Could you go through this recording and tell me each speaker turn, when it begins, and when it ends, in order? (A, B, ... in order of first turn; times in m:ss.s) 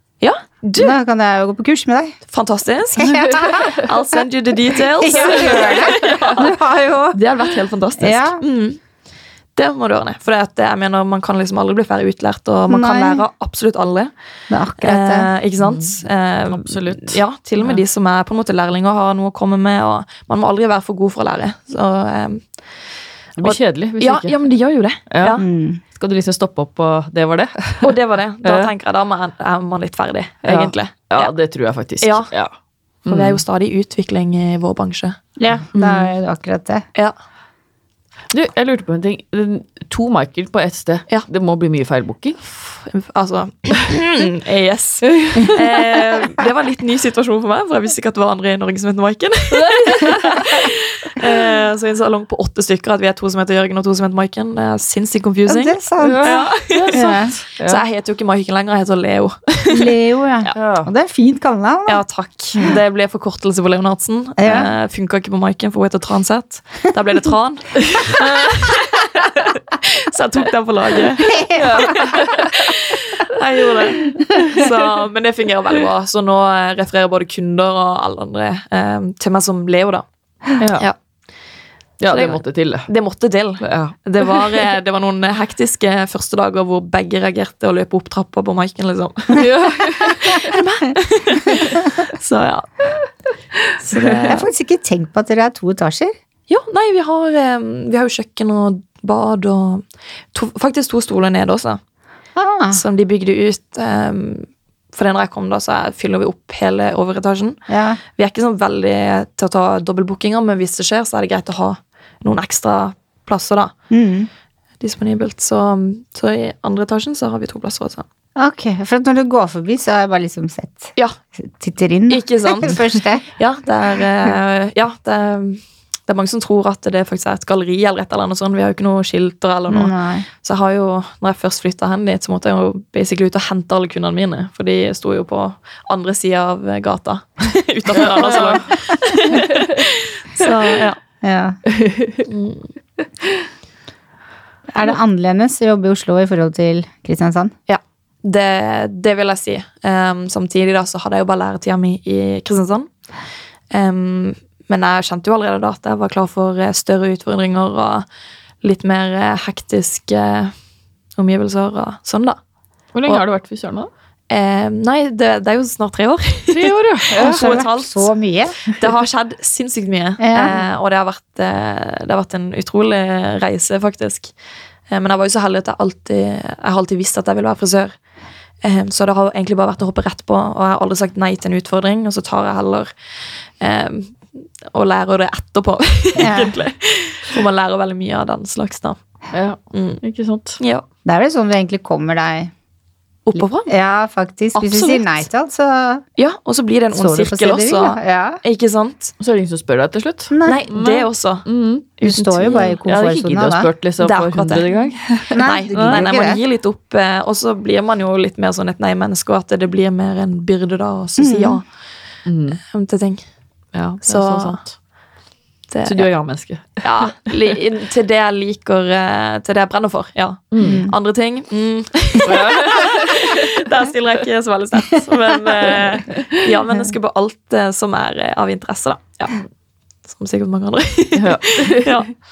0:00.2-0:00.9 A
0:00.8-0:02.2 B
0:02.3-0:06.6 A
0:03.0-0:03.9 B
0:03.0-0:03.9 C
0:04.9-0:07.2 B
0:05.2-0:06.3 C
0:07.1-0:08.8 A
0:08.0-0:08.4 B
0:09.6-0:14.1 A
0:12.7-0:13.2 B
0:14.5-0:15.3 B
0:14.8-0:22.5 A
0:15.6-0:16.0 C
0:16.5-0:17.8 C
0:23.4-0:24.4 C
0:23.4-0:25.4 A
0:25.1-0:28.7 C
0:25.4-0:25.8 B
0:27.8-0:31.3 A
0:30.4-0:32.5 C
0:32.0-0:32.3 A
0:33.0-0:35.2 A
0:33.1-0:33.4 C
0:35.4-0:36.8 B
0:35.8-0:36.0 C
0:38.3-0:42.4 C
0:42.5-1:00.6 A
0:45.1-0:45.8 C
0:49.5-0:51.3 C
0:55.5-0:56.4 B
0:56.0-0:57.8 C
0:56.9-0:57.3 B
0:59.7-1:02.0 B
1:00.5-1:00.9 C
1:01.9-1:20.0 A
1:04.4-1:04.7 B
1:11.3-1:12.2 B
1:11.5-1:12.7 C
1:14.2-1:14.7 C
1:20.6-1:20.8 C
1:22.0-1:22.9 C
1:22.1-1:32.9 A
1:23.6-1:24.6 C
1:29.4-1:30.6 C
1:33.6-1:34.2 C
1:33.8-1:34.5 A
1:34.2-1:36.1 B
1:36.5-1:41.8 A
1:42.4-1:42.8 B
1:42.7-1:47.6 A
1:47.7-1:48.0 B
1:48.2-1:53.7 A
1:53.9-1:54.3 B
1:54.8-1:58.0 A
1:58.4-2:03.2 B
2:02.1-2:21.0 A
2:09.7-2:10.2 B
2:18.1-2:18.7 C
2:19.3-2:19.8 C
2:21.2-2:21.6 B
2:21.7-2:22.3 C
2:22.3-2:22.6 A
2:23.2-2:23.5 C
2:24.7-2:27.5 B
2:27.7-2:32.9 A
2:33.7-2:38.0 A
2:38.6-2:40.5 A
2:41.2-2:42.4 A
2:42.9-2:43.9 C
2:44.3-2:48.1 A
2:46.5-2:47.4 C
2:47.1-2:48.7 B
2:48.7-2:54.3 A
2:50.2-2:50.6 B
2:54.9-2:57.9 A
2:58.6-3:02.9 A
3:03.6-3:09.0 A
3:06.2-3:06.6 B
3:09.3-3:10.6 C
3:09.7-3:10.0 A
3:10.6-3:10.8 A
3:11.0-3:12.5 B
3:13.2-3:13.7 A
3:13.7-3:16.0 B
3:14.6-3:15.2 A
3:16.2-3:19.1 A
3:16.9-3:18.4 B
3:19.2-3:21.9 C
3:20.3-3:20.6 B
3:20.4-3:21.5 A
3:22.0-3:22.8 A
3:22.0-3:23.7 B
3:22.8-3:26.1 C
3:24.0-3:24.7 A
3:25.3-3:26.4 B
3:25.4-3:31.6 A
3:31.2-3:31.6 B
3:32.2-3:32.6 C
3:32.7-3:33.2 A
3:33.7-3:34.7 C
3:34.0-3:34.6 A
3:35.7-3:36.1 A
3:35.8-3:37.5 C
3:36.8-3:49.4 A
3:40.5-3:40.8 C
3:40.6-3:41.0 B
3:42.2-3:43.5 C
3:45.6-3:46.3 C
3:50.0-3:52.1 A
3:51.1-3:52.0 C